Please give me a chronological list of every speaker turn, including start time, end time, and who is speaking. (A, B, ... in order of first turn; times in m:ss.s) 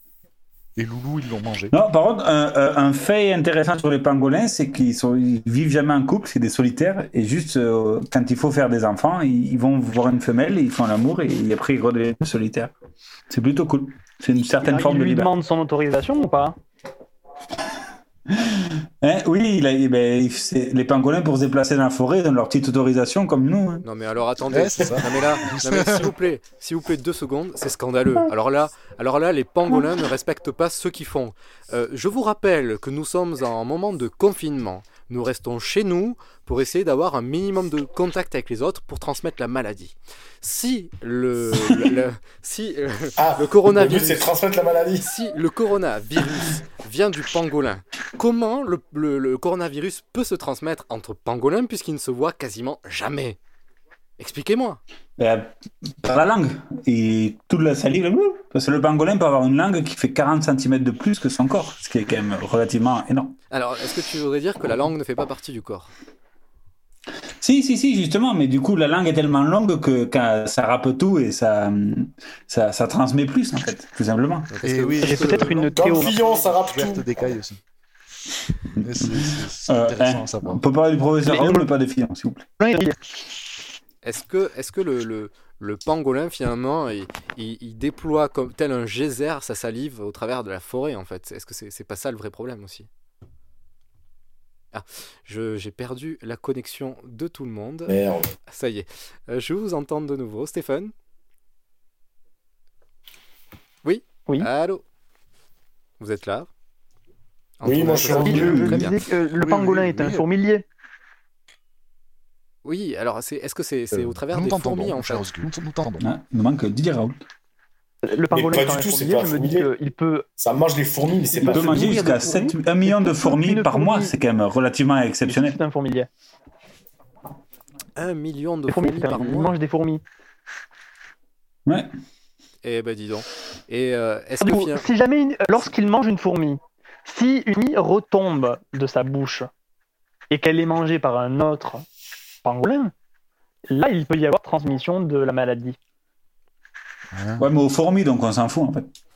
0:00.8-0:01.7 A
0:01.7-0:12.7 B
0:13.3-0:15.4 B
0:14.5-0:16.6 C
0:18.4-0:23.8 B
0:23.8-0:44.3 D
0:24.5-0:26.1 A
0:43.2-0:45.1 E
0:45.0-0:53.4 D
0:54.2-0:54.8 D
0:55.2-1:03.4 B
1:03.5-1:05.9 D
1:07.4-1:14.5 B
1:14.5-1:15.7 D
1:14.6-1:17.6 A
1:15.0-1:16.2 C
1:15.7-1:17.3 E
1:18.8-1:20.6 A
1:19.7-1:22.4 B
1:21.3-1:21.7 C
1:22.6-1:23.0 C
1:24.0-1:32.9 D
1:34.7-1:37.9 D
1:37.9-1:38.3 E
1:38.5-1:40.9 D
1:43.8-1:44.8 D
1:46.0-1:46.5 D
1:47.6-1:49.0 D
1:47.6-1:48.7 E
1:48.0-1:50.6 C
1:48.3-1:48.6 B
1:48.7-1:50.3 A
1:52.6-1:55.3 D
1:53.9-1:56.0 A
1:56.0-1:57.2 B
1:58.0-2:00.3 C
1:58.3-1:59.7 E
2:00.4-2:02.0 E
2:01.3-2:04.1 C
2:01.4-2:05.6 B
2:05.3-2:06.1 C
2:08.0-2:09.5 D
2:08.7-2:10.0 C
2:12.6-2:14.9 D
2:14.4-2:19.5 C
2:20.3-2:21.8 C
2:22.4-2:22.9 C
2:23.7-2:25.8 C
2:27.1-2:27.5 A
2:27.4-2:28.9 B